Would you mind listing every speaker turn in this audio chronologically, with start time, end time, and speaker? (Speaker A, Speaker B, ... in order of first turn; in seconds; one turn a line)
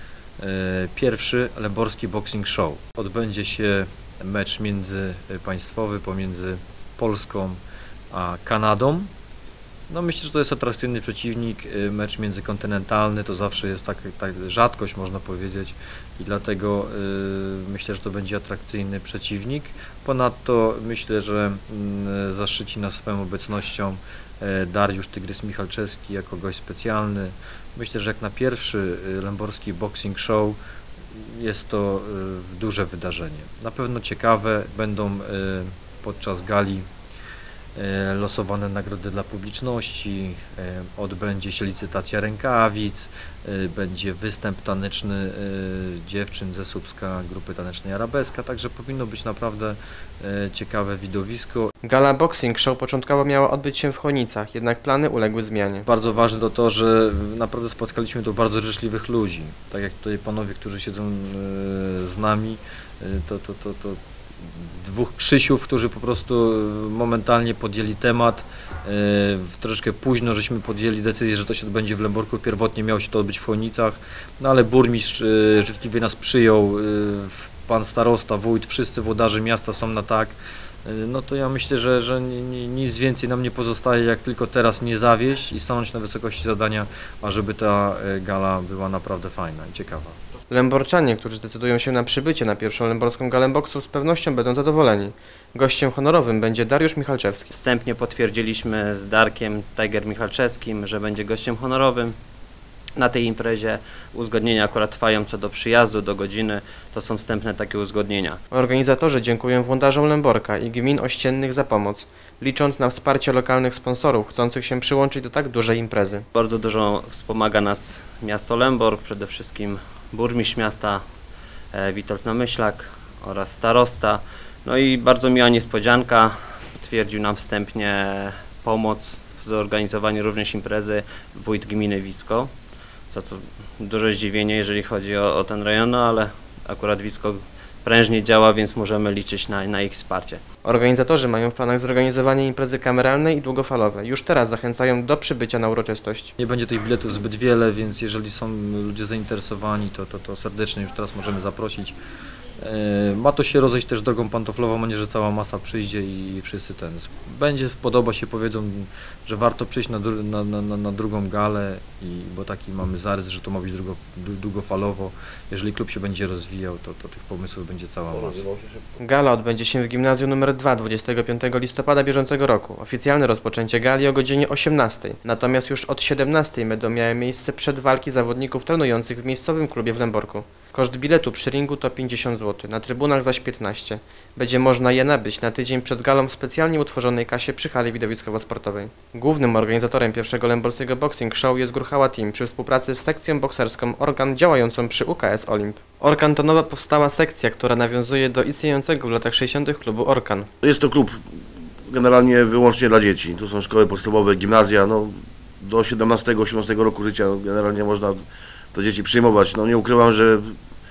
Speaker A: 0.4-7.6
Speaker A: 8.1-9.1
Speaker A: 9.9-30.6
Speaker A: 31.1-36.8
Speaker A: 37.8-51.7
Speaker B: 51.8-55.9
Speaker A: 55.9-90.2
Speaker B: 90.5-97.5
Speaker C: 97.5-102.1
Speaker C: 103.0-108.4
Speaker B: 108.5-116.2
Speaker C: 116.3-121.0
Speaker C: 121.7-132.5
Speaker C: 133.1-140.4
Speaker B: 140.6-146.3
Speaker A: 146.4-151.9
Speaker A: 152.6-168.4
Speaker D: 168.1-168.9
Speaker B: 169.0-200.5
Speaker D: 200.6-201.2
Speaker D: 201.9-208.2
Speaker D: 208.7-210.5